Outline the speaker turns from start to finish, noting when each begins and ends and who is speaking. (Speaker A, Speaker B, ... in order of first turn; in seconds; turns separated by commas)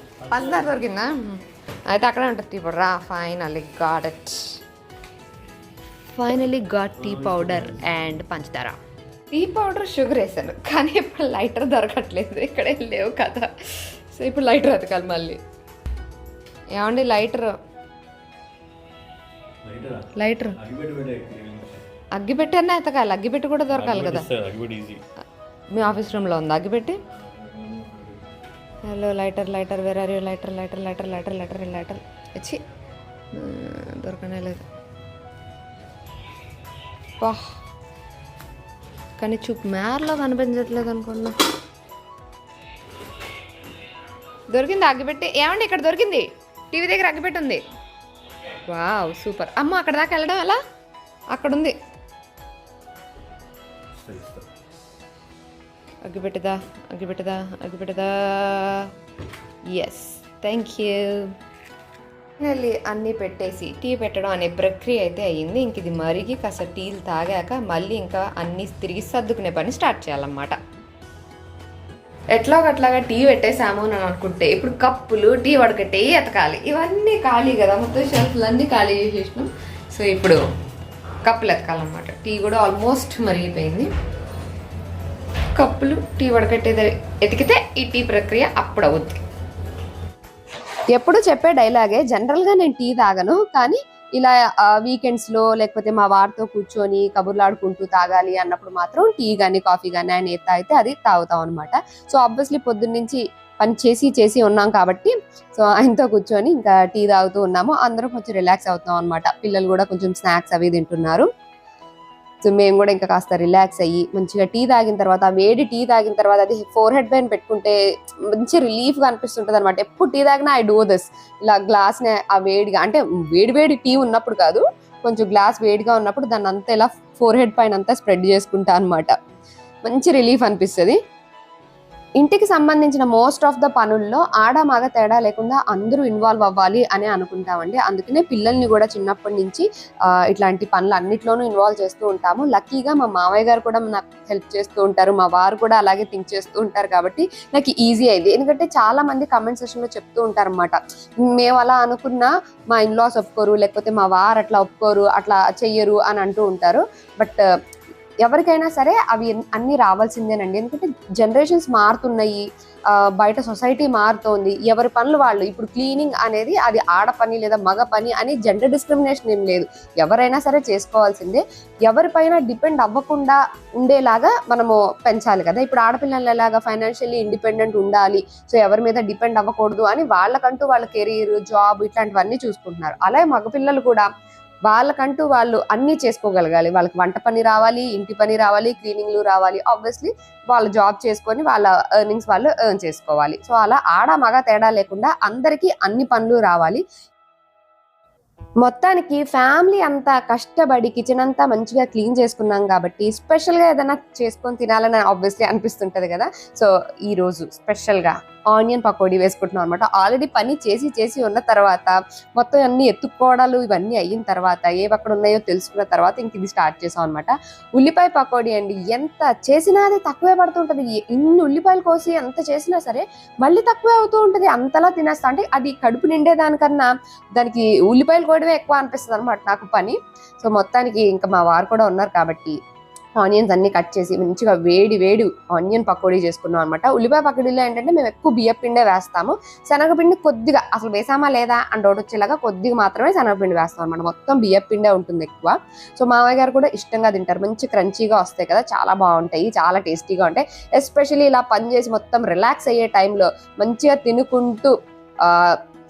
Speaker A: 0.2-0.8, Speaker B: 0.3-4.4, Speaker B: 6.1-8.8, Speaker A: 6.9-8.1, Speaker B: 9.3-15.4, Speaker B: 16.7-17.5, Speaker A: 19.6-21.8, Speaker B: 20.2-20.5, Speaker B: 22.1-24.3, Speaker A: 23.7-25.0, Speaker B: 25.7-26.9, Speaker A: 27.0-28.3, Speaker B: 28.9-32.6, Speaker B: 33.3-34.6, Speaker B: 39.2-41.3, Speaker B: 44.5-47.6, Speaker B: 48.7-50.6, Speaker B: 51.3-51.7, Speaker A: 53.9-54.5, Speaker B: 56.0-58.9, Speaker B: 59.7-61.3, Speaker B: 62.4-70.6, Speaker B: 72.3-80.4, Speaker B: 81.3-83.9, Speaker B: 85.6-89.2, Speaker C: 90.9-111.3, Speaker C: 112.4-117.8, Speaker C: 118.4-129.1, Speaker C: 129.8-131.0, Speaker C: 132.2-139.7, Speaker C: 140.3-157.4, Speaker C: 158.2-184.1, Speaker C: 184.7-196.8, Speaker C: 198.6-232.6, Speaker C: 233.2-255.6